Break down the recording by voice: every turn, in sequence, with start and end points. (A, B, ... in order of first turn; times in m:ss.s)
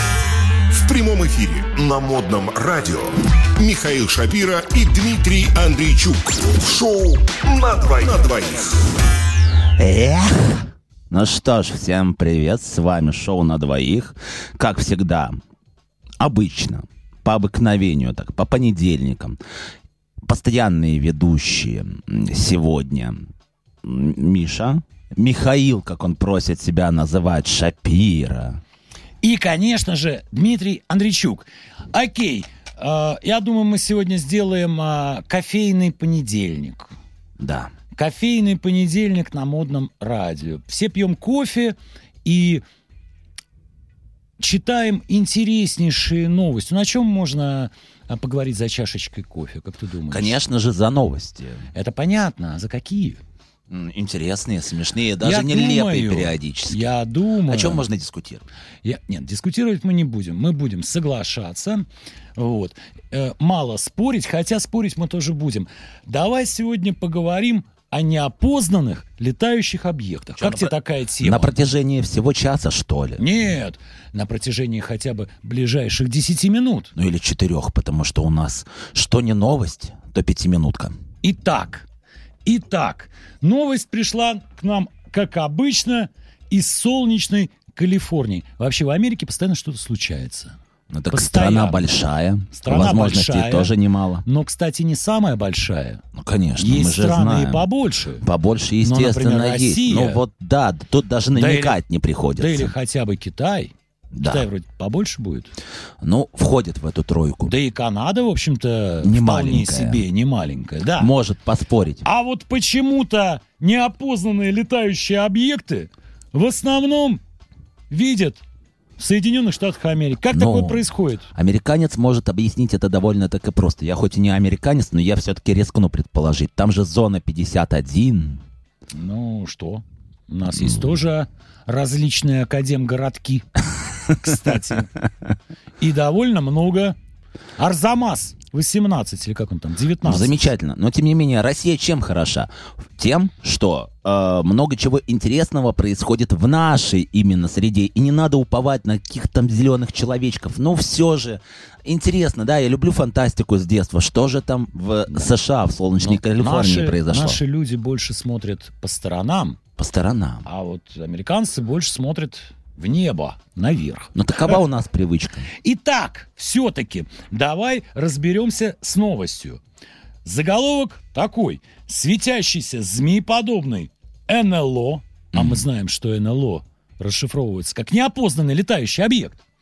0:00.7-0:08.9 A
0:09.8-0:15.4 B
0:16.2-0:19.4 B
0:20.2-0:23.3 B
0:23.8-0:28.6 B
0:29.2-0:36.9 C
0:37.4-0:37.7 B
0:37.9-0:42.6 C
0:44.4-0:50.4 C
0:50.1-0:51.7 B
0:51.7-0:53.2 C
0:53.7-0:56.9 B
0:55.2-0:57.8 C
0:57.4-0:58.4 B
0:58.8-1:11.5 C
1:10.4-1:13.2 B
1:13.2-1:16.9 C
1:17.0-1:21.0 B
1:21.2-1:21.9 C
1:22.4-1:30.6 C
1:30.9-1:34.2 B
1:31.1-1:31.9 C
1:32.5-1:33.7 C
1:34.2-1:36.0 C
1:36.2-1:37.7 B
1:36.6-1:38.2 C
1:38.2-1:42.7 B
1:38.8-1:40.2 C
1:41.3-1:41.8 C
1:42.4-1:45.5 C
1:44.1-1:44.5 B
1:46.0-1:47.5 B
1:47.5-1:51.1 C
1:49.0-1:50.0 B
1:51.0-1:52.0 B
1:52.0-1:57.2 C
1:57.9-1:58.4 C
1:59.0-2:01.3 C
2:00.3-2:08.4 B
2:08.9-2:14.9 C
2:15.8-2:17.0 C
2:17.6-2:20.5 C
2:20.0-2:37.4 B
2:36.0-2:39.6 C
2:39.8-2:40.5 B
2:40.4-2:44.6 C
2:44.2-2:45.5 B
2:45.5-2:49.6 C
2:50.2-2:59.4 C
2:55.3-2:55.6 B